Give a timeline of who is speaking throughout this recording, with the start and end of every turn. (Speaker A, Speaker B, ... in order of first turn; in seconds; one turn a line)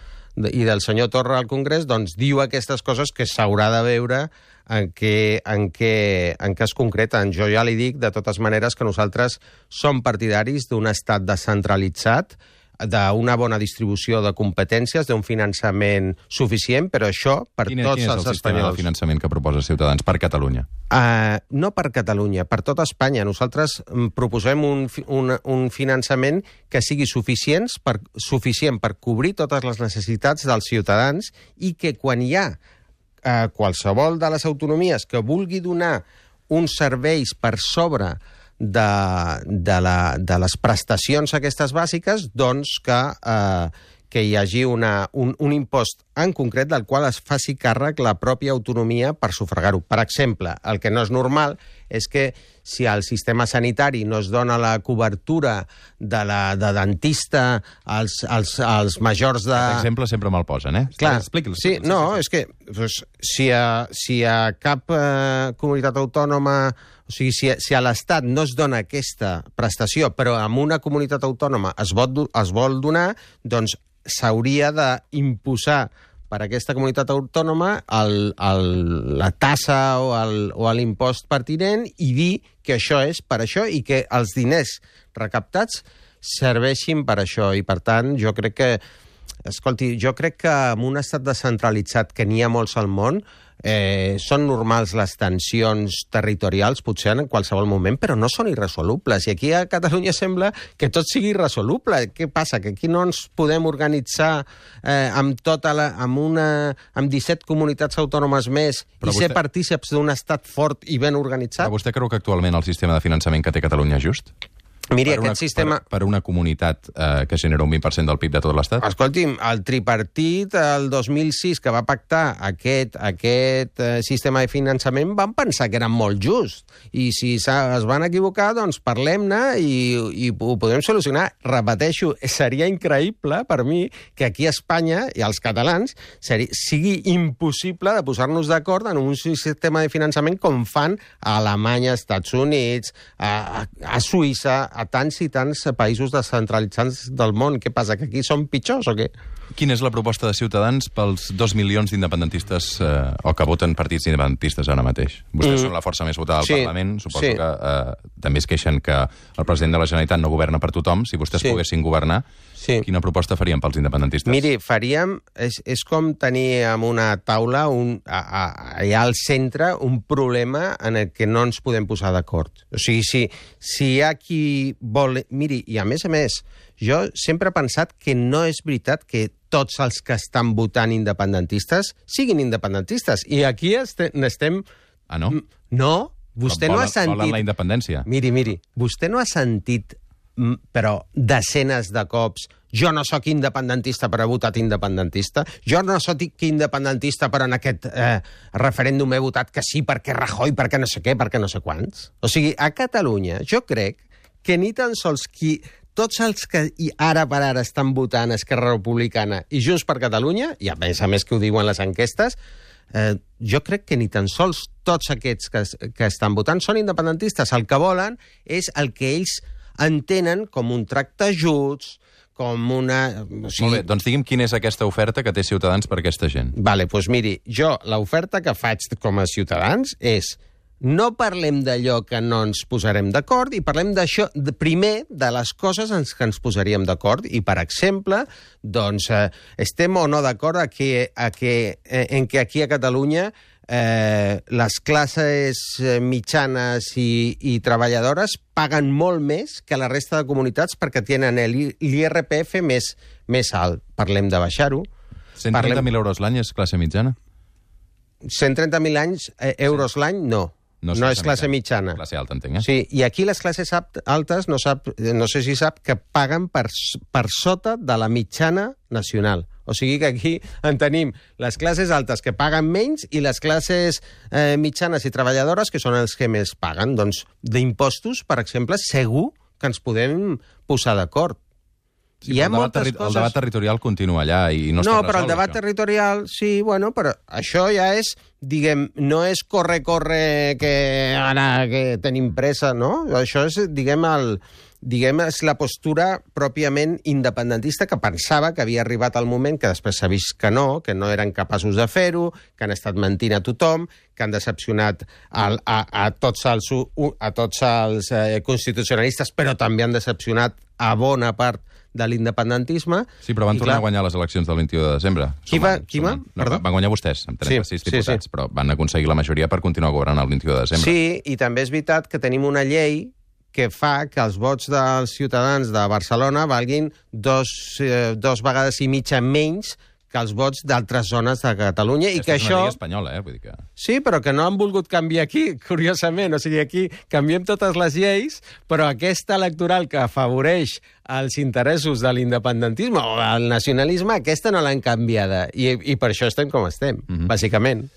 Speaker A: 0.4-18.9
Speaker B: 17.7-20.7
Speaker A: 20.9-32.6
Speaker A: 33.2-59.9
Speaker B: 59.5-62.2
Speaker A: 61.0-88.8
Speaker A: 89.5-111.7
Speaker B: 109.0-109.4
Speaker B: 111.6-114.3
Speaker A: 114.9-115.8
Speaker B: 115.0-118.8
Speaker A: 118.8-149.1
Speaker B: 149.5-162.2
Speaker A: 155.4-155.7
Speaker A: 156.4-157.4
Speaker A: 162.6-162.8
Speaker B: 162.8-164.4
Speaker A: 164.3-184.7
Speaker B: 185.1-185.4
Speaker A: 185.3-187.4
Speaker B: 186.5-188.1
Speaker A: 188.1-212.4
Speaker A: 212.9-223.8
Speaker B: 223.6-226.6
Speaker A: 226.6-254.9
Speaker B: 255.4-257.2
Speaker A: 255.5-255.9
Speaker A: 258.2-262.0
Speaker B: 260.8-262.7
Speaker A: 262.6-281.4
Speaker B: 282.2-285.6
Speaker A: 282.3-283.4
Speaker A: 284.8-313.8
Speaker B: 313.2-320.9
Speaker A: 315.5-316.6
Speaker A: 317.4-318.2
Speaker A: 320.8-332.8
Speaker B: 332.1-333.7
Speaker A: 333.8-347.9